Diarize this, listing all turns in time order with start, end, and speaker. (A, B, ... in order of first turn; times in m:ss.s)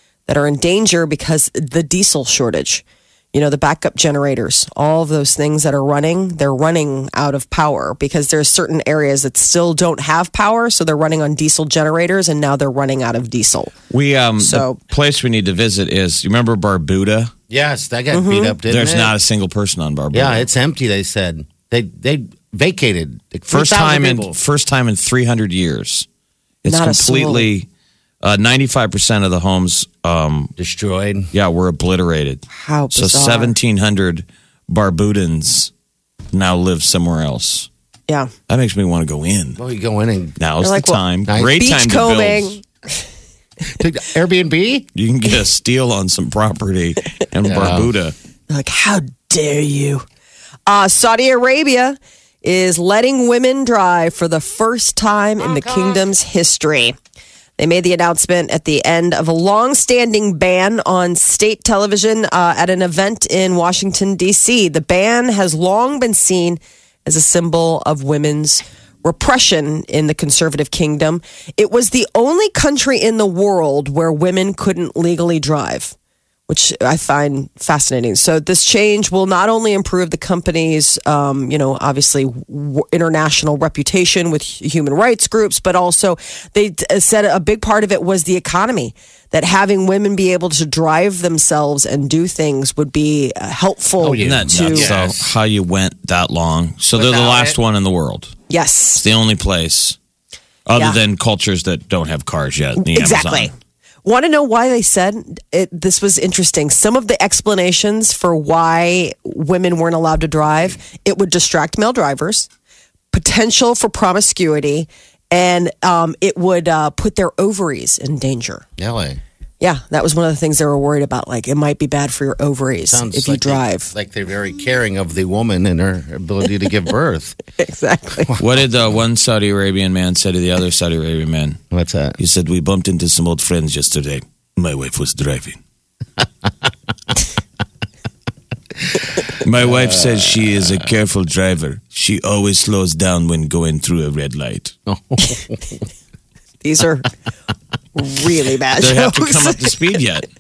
0:00.3-0:13.7 A
0:13.9-0:17.3 B
0:14.4-0:14.8 A
0:17.5-0:19.1 C
0:18.1-0:18.6 A
0:18.7-0:20.5 B
0:20.1-0:24.3 C
0:23.5-0:26.1 B
0:26.6-0:27.7 B
0:26.7-0:27.5 A
0:28.2-0:30.5 B
0:30.6-0:31.3 C
0:31.3-0:35.7 B
0:32.5-0:33.5 A
0:36.3-0:37.7 B
0:38.5-0:39.6 B
0:39.6-0:40.4 C
0:40.4-0:42.6 B
0:40.6-0:41.0 A
0:41.3-0:41.5 C
0:41.5-0:42.6 A
0:43.8-0:44.9 C
0:45.0-0:48.1 B
0:47.4-0:47.9 C
0:48.5-0:50.0 A
0:50.7-0:57.0 A
0:55.4-0:56.1 C
0:57.6-1:16.0 A
1:16.5-1:34.9 A
1:34.0-1:35.2 C
1:34.2-1:38.4 B
1:36.9-1:37.6 C
1:38.5-1:39.0 A
1:39.0-1:40.0 B
1:40.7-1:43.5 B
1:42.8-1:43.5 A
1:44.0-1:52.5 A
1:53.1-1:58.6 A
1:58.8-1:59.2 C
1:59.6-2:03.9 A
2:02.8-2:07.4 C
2:07.6-2:08.4 A
2:08.4-2:11.6 B
2:11.7-2:12.2 C
2:12.2-2:15.6 B
2:19.4-2:24.8 B
2:19.6-2:20.8 C
2:24.9-2:25.6 C
2:26.6-2:27.1 A
2:28.0-2:29.8 A
2:28.8-2:30.3 B